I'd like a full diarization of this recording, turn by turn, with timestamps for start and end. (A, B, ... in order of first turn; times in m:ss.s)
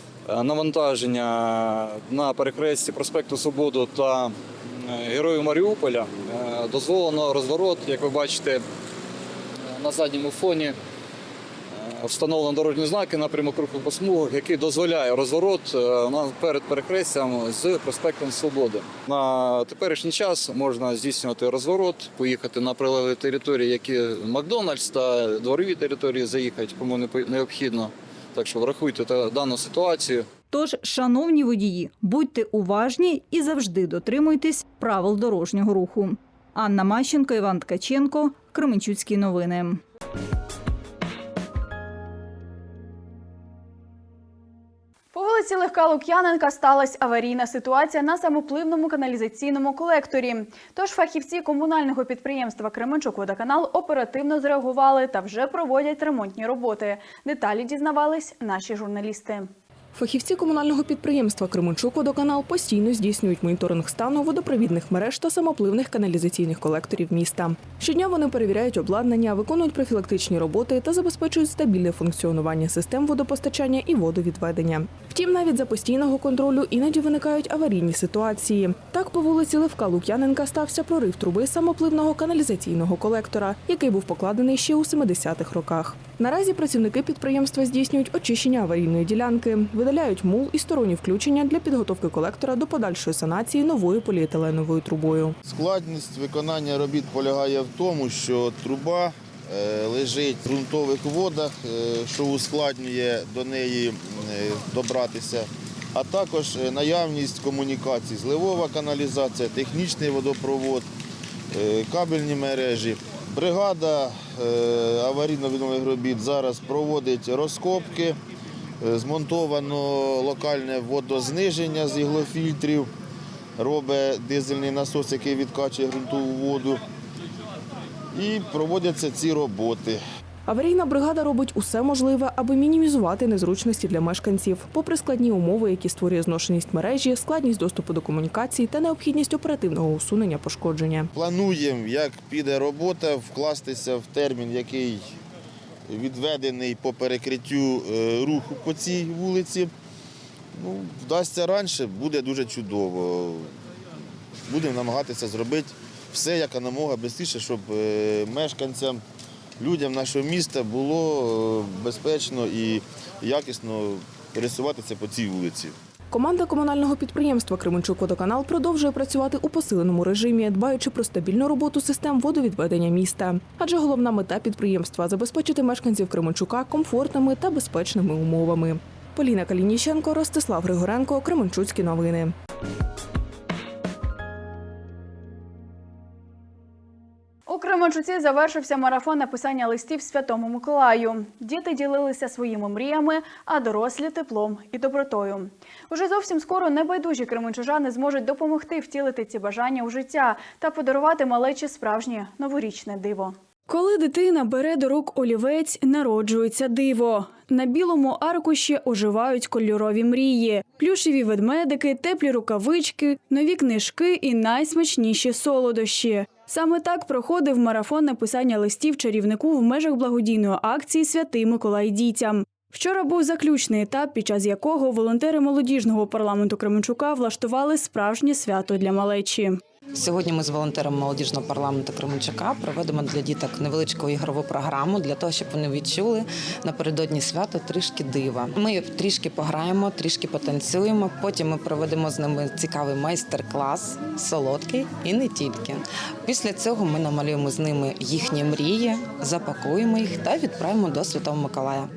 0:00.3-0:08.6 A
0:09.7-0:10.7 A
0:11.7-0:30.3 A
0:30.5-0:39.8 B
0:45.1-0:59.5 C
0:59.9-1:35.4 D
1:35.4-1:50.8 E
1:51.5-1:58.2 E
1:58.8-2:02.9 E
2:03.6-2:06.8 E
2:08.1-2:10.0 E
2:10.5-2:21.1 D
2:21.1-2:25.0 E
2:25.9-2:29.7 E
2:30.6-2:33.5 E
2:34.5-2:39.0 E
2:39.6-2:45.7 E
2:46.1-3:02.3 D
3:07.5-3:49.6 C
3:49.9-4:11.9 F